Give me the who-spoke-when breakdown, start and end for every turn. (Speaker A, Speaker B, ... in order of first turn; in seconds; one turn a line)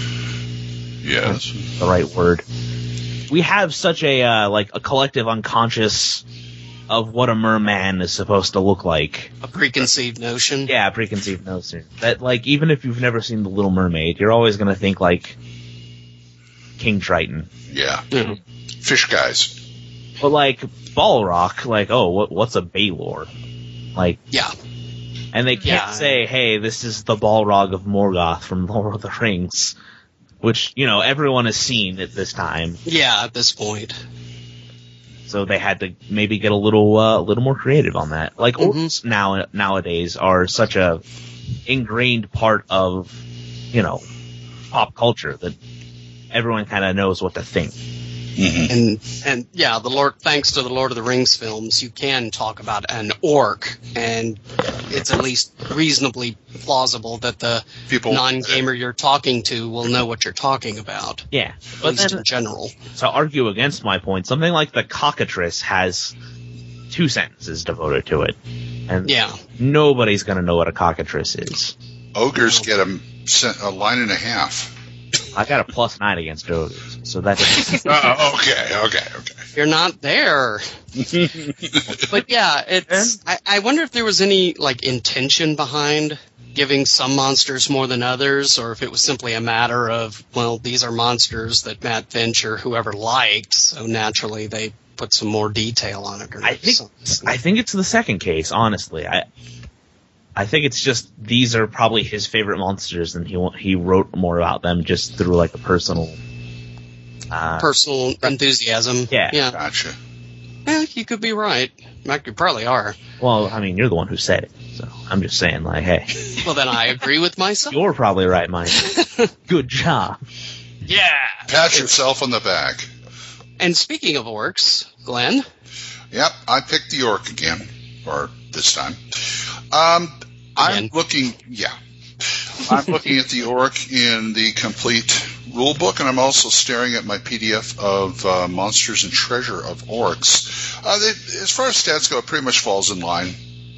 Speaker A: 1.0-1.6
Speaker B: 1.2-2.4
Speaker B: 3.3-6.2
Speaker B: 6.9-9.3
Speaker C: 9.4-10.7
Speaker B: 10.7-15.4
Speaker B: 16.8-17.5
Speaker A: 17.7-18.1
Speaker C: 18.1-18.4
Speaker A: 18.8-19.6
Speaker B: 20.2-23.3
Speaker B: 23.9-24.2
Speaker B: 25.3-29.7
Speaker C: 25.6-26.2
Speaker B: 30.4-32.8
Speaker C: 32.9-34.0
Speaker B: 35.3-41.0
Speaker C: 38.6-38.9
Speaker B: 41.6-43.2
Speaker B: 43.7-44.0
Speaker B: 44.7-45.5
Speaker B: 46.3-47.8
Speaker A: 48.4-48.7
Speaker C: 48.7-61.3
Speaker A: 57.9-58.6
Speaker B: 61.3-62.2
Speaker C: 61.8-62.7
Speaker B: 63.0-66.1
Speaker B: 66.9-68.4
Speaker B: 68.9-71.7
Speaker C: 69.0-69.4
Speaker A: 72.1-74.7
Speaker C: 72.4-72.7
Speaker B: 75.3-78.0
Speaker A: 77.8-79.4
Speaker C: 79.5-80.6
Speaker A: 81.0-81.9
Speaker B: 81.9-82.3
Speaker C: 82.1-97.3
Speaker B: 82.9-83.2
Speaker B: 96.4-99.2
Speaker B: 100.3-106.2
Speaker B: 107.3-107.7
Speaker C: 107.6-109.6
Speaker B: 109.1-109.5
Speaker A: 109.5-110.0
Speaker C: 110.7-113.0
Speaker B: 113.2-116.3
Speaker C: 116.4-117.8
Speaker B: 117.7-120.2
Speaker C: 118.8-119.3
Speaker C: 120.9-121.9
Speaker A: 121.5-122.9
Speaker C: 123.6-125.4
Speaker A: 126.1-131.7
Speaker C: 130.6-130.9
Speaker A: 132.3-143.4